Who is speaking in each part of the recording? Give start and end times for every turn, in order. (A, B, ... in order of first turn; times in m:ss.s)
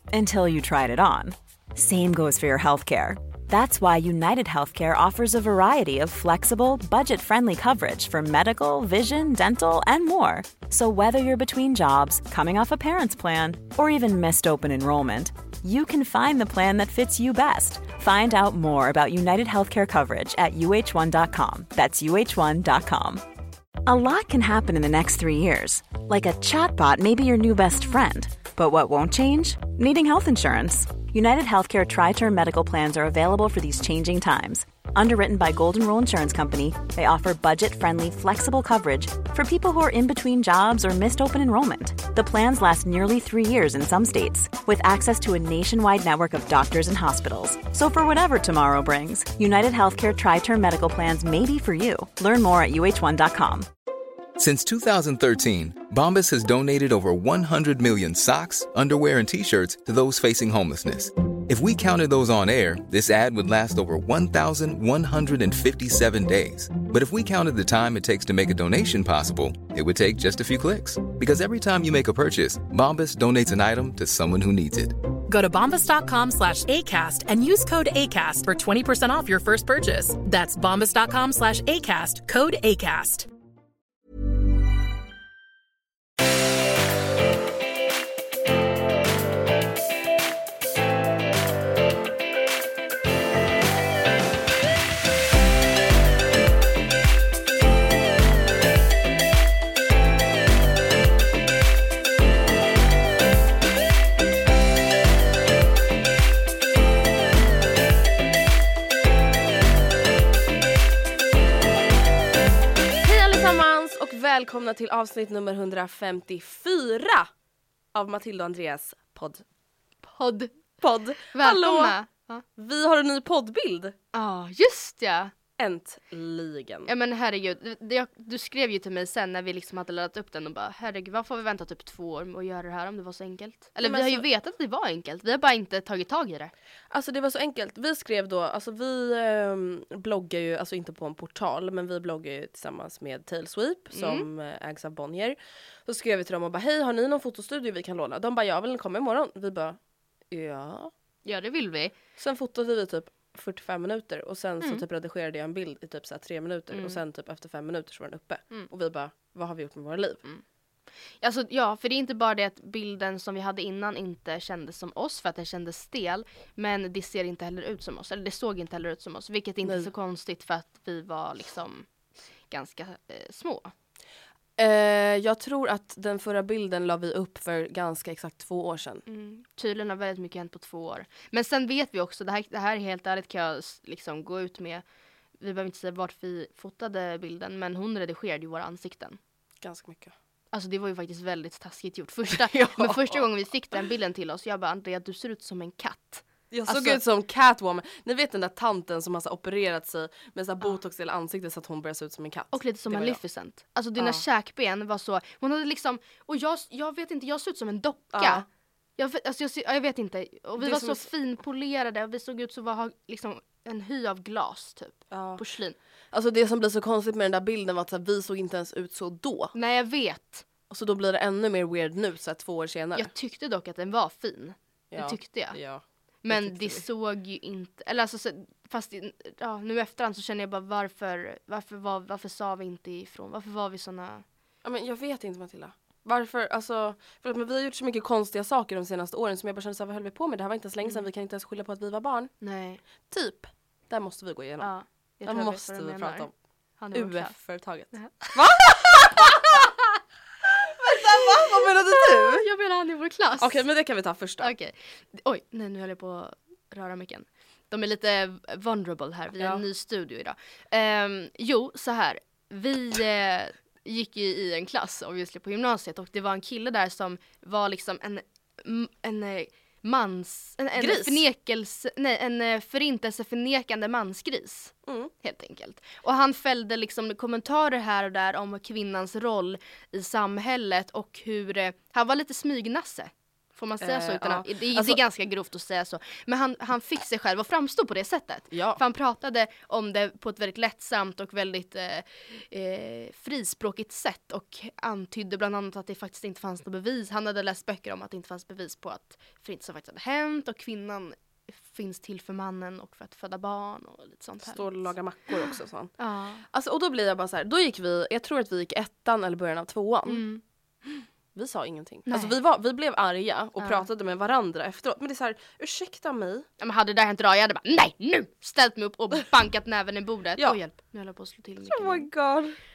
0:00.1-0:23.2 A
0:23.8-0:53.7 A
0:54.4-1:15.0 B
1:15.3-1:23.3 C
1:53.0-1:57.3 D
1:57.9-1:59.4 D
2:00.0-2:00.6 E
2:00.8-2:01.9 D
2:01.3-2:02.4 E
2:02.6-2:03.9 D
2:04.1-2:05.3 E
2:05.6-2:06.9 D
2:06.8-2:16.5 E
2:13.8-2:14.2 D
2:16.9-2:29.8 D
2:23.9-2:24.3 E
2:30.3-2:30.9 D
2:31.2-2:32.0 E
2:32.2-2:40.2 D
2:36.7-2:37.0 E
2:41.2-2:51.9 E
2:49.6-2:49.9 D
2:52.5-2:53.7 E
2:54.6-2:59.0 D
2:59.0-3:04.8 E
3:05.4-3:09.2 E
3:09.6-3:10.1 D
3:10.5-3:17.0 E
3:12.3-3:13.2 D
3:16.5-3:23.2 D
3:22.5-3:28.5 E
3:24.0-3:24.2 D
3:28.1-3:28.4 D
3:29.0-3:35.8 E
3:30.6-3:31.1 D
3:35.1-3:35.4 D
3:36.1-3:39.5 D
3:39.5-3:40.5 E
3:40.7-3:43.1 D
3:42.9-3:45.6 E
3:44.9-3:46.8 D
3:46.2-3:54.2 E
3:54.6-4:02.3 D
4:02.4-4:02.8 E
4:03.1-4:04.7 D
4:04.6-4:07.4 E
4:05.2-4:06.3 D
4:06.9-4:09.6 D
4:07.9-4:08.4 E
4:08.9-4:09.8 E
4:10.7-4:12.4 D
4:10.8-4:13.6 E
4:13.4-4:14.5 D
4:14.4-5:06.4 E
4:19.4-4:19.6 D
4:30.8-4:31.2 D
4:34.9-4:35.1 D
4:43.8-4:45.0 D
4:48.5-4:48.8 D
5:04.4-5:06.0 D
5:06.5-5:10.2 D
5:10.0-5:11.0 E
5:11.3-5:16.5 D
5:12.1-5:12.4 E
5:13.6-5:13.9 E
5:16.6-5:22.1 E
5:21.6-5:22.6 D